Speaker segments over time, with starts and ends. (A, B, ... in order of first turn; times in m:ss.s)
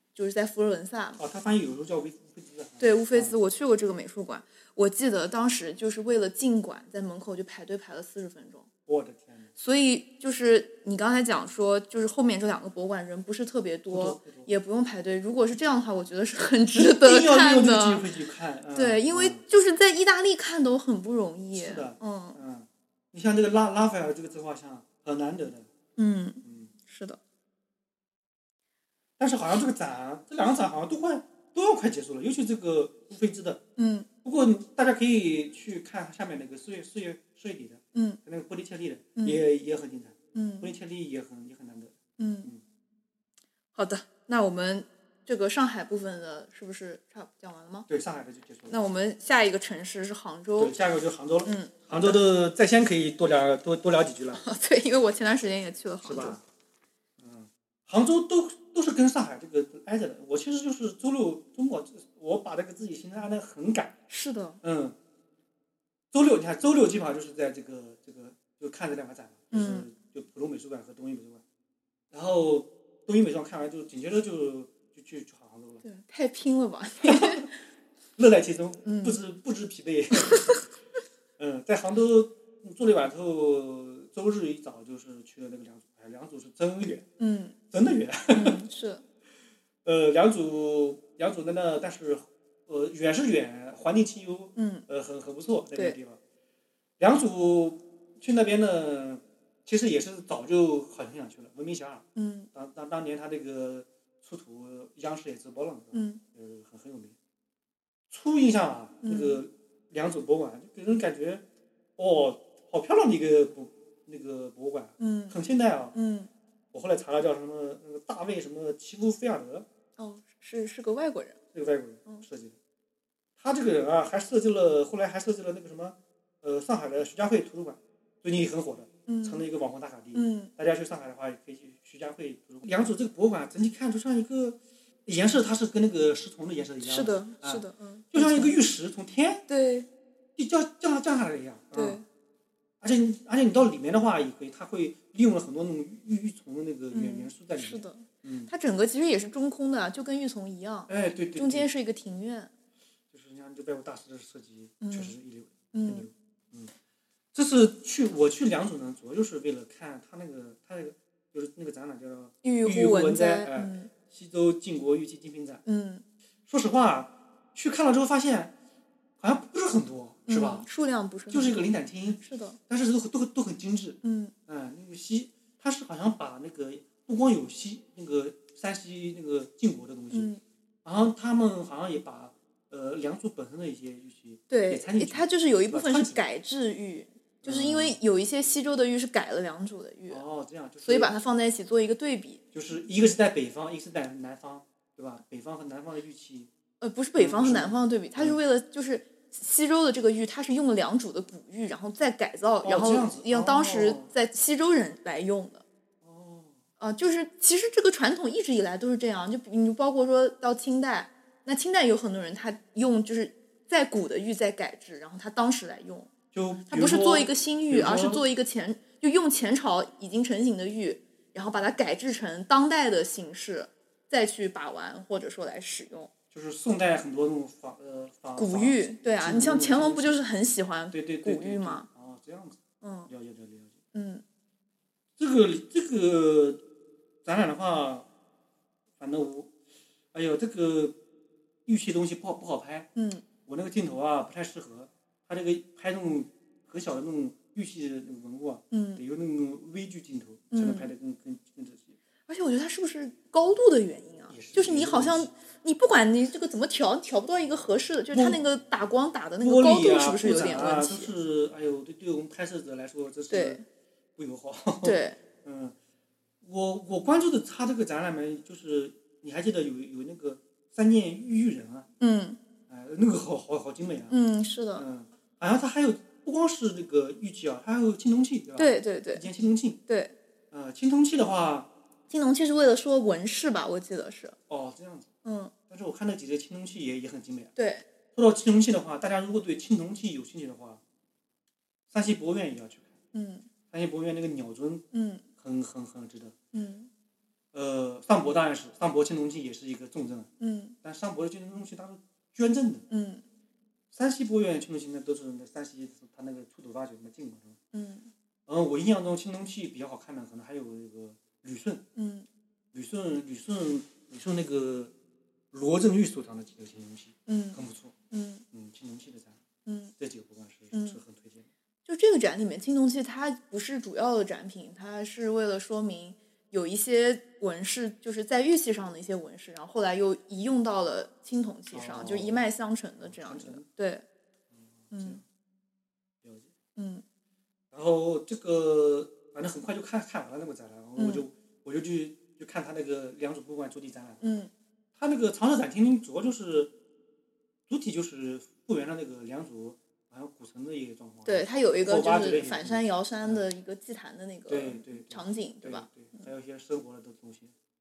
0:00.1-0:01.2 A
0:01.2-0:03.4 B
0:02.8-0:08.7 A
0:08.8-0:09.5 B
0:09.6-0:18.1 A
0:13.9-0:14.5 B
0:16.8-0:19.4 B
0:18.7-0:22.4 A
0:21.5-0:25.7 B
0:26.0-0:27.2 A
0:26.4-0:26.7 B
0:29.2-0:33.6 B
0:33.8-0:34.1 A
0:34.2-0:42.6 B
0:39.2-0:39.4 A
0:40.3-0:40.7 A
0:42.2-0:42.5 A
0:43.7-0:47.9 A
0:47.9-0:48.8 B
0:48.7-0:50.7 A
0:50.6-0:54.4 B
0:51.4-0:52.2 A
0:54.3-0:56.4 A
0:56.0-0:56.4 B
0:57.2-1:03.9 B
1:04.1-1:04.6 A
1:04.6-1:05.0 B
1:06.1-1:11.4 B
1:09.5-1:09.9 A
1:12.1-1:15.8 B
1:15.8-1:17.5 A
1:17.0-1:17.4 B
1:18.2-1:20.6 B
1:18.8-1:19.2 A
1:20.2-1:20.5 A
1:21.4-1:27.0 B
1:27.2-1:27.6 A
1:27.7-1:28.6 B
1:28.3-1:29.0 A
1:29.8-1:36.2 B
1:34.6-1:34.8 A
1:37.0-1:47.1 B
1:42.2-1:42.5 A
1:45.9-1:46.2 A
1:48.1-1:51.4 B
1:49.0-1:49.4 A
1:52.0-1:55.9 B
1:55.0-1:55.4 A
1:55.9-1:56.3 A
1:56.7-1:59.6 B
2:00.0-2:01.4 A
2:01.5-2:02.6 B
2:03.4-2:19.4 B
2:09.1-2:09.4 A
2:10.1-2:10.5 A
2:16.8-2:18.6 A
2:19.5-2:19.9 A
2:20.4-2:22.0 B
2:21.7-2:22.0 A
2:22.8-2:28.5 B
2:26.9-2:32.5 A
2:30.9-2:31.7 B
2:33.1-2:36.7 B
2:34.8-2:35.1 A
2:35.7-2:36.1 A
2:37.3-2:45.6 B
2:42.4-2:43.9 A
2:45.6-2:46.0 A
2:46.5-2:48.5 B
2:49.2-2:50.6 B
2:50.3-2:51.7 A
2:51.3-3:00.3 B
2:52.2-2:52.6 A
2:54.0-2:54.3 A
3:00.1-3:00.4 A
3:00.8-3:06.2 B
3:04.5-3:10.2 A
3:07.4-3:08.0 B
3:10.1-3:11.1 B
3:10.8-3:12.4 A
3:12.5-3:16.5 B
3:16.8-3:25.6 A
3:17.2-3:18.4 B
3:22.6-3:24.1 B
3:26.0-3:26.6 B
3:26.8-3:36.1 A
3:36.3-3:38.2 B
3:36.7-3:46.1 A
3:46.3-3:50.2 B
3:48.4-3:51.9 A
3:50.9-3:53.8 B
3:52.8-3:53.1 A
3:53.9-3:54.2 A
3:55.2-3:56.6 B
3:57.2-3:58.1 B
3:59.0-3:59.5 B
4:00.1-4:01.0 B
4:01.6-4:02.9 B
4:03.0-4:03.2 A
4:03.4-4:11.9 B
4:08.7-4:09.0 A
4:10.5-4:10.9 A
4:12.3-4:21.1 A
4:14.3-4:15.3 B
4:18.1-4:18.4 B
4:19.4-4:23.6 B
4:23.3-4:23.6 A
4:24.2-4:25.7 B
4:24.8-4:25.2 A
4:26.4-4:31.9 B
4:32.0-4:32.4 A
4:32.7-4:34.2 B
4:34.1-4:34.8 A
4:34.8-4:39.8 B
4:38.6-4:39.3 A
4:39.9-4:40.1 A
4:40.5-4:41.7 B
4:42.1-4:44.4 A
4:44.5-4:45.1 B
4:45.2-4:45.5 A
4:45.7-4:47.5 B
4:47.6-4:47.9 A
4:48.1-4:50.8 B
4:51.9-4:52.9 B
4:53.1-4:53.5 A
4:53.7-4:54.8 B
4:54.9-4:55.2 A
4:55.4-4:56.3 B
4:56.5-4:56.9 A
4:57.5-5:00.3 B
5:00.4-5:00.8 A
5:00.8-5:02.8 B
5:02.9-5:03.2 A
5:03.9-5:07.6 B
5:07.7-5:08.1 A
5:08.5-5:11.8 B
5:12.0-5:12.3 A
5:12.7-5:14.9 B
5:15.5-5:17.9 B
5:17.3-5:17.6 A
5:18.1-5:18.4 A
5:18.5-5:19.4 B
5:19.6-5:19.9 A
5:20.0-5:21.5 B
5:20.7-5:21.0 A
5:21.8-5:34.0 A
5:31.7-5:32.5 B
5:33.0-5:33.6 B
5:34.5-5:35.2 B
5:34.9-5:35.2 A
5:36.2-5:36.5 B
5:36.8-5:37.0 A
5:37.7-5:44.2 B
5:41.0-5:41.2 A
5:44.2-5:44.5 A
5:45.0-5:46.7 B
5:47.7-5:53.4 B
5:51.2-5:56.3 A
5:54.5-5:57.5 B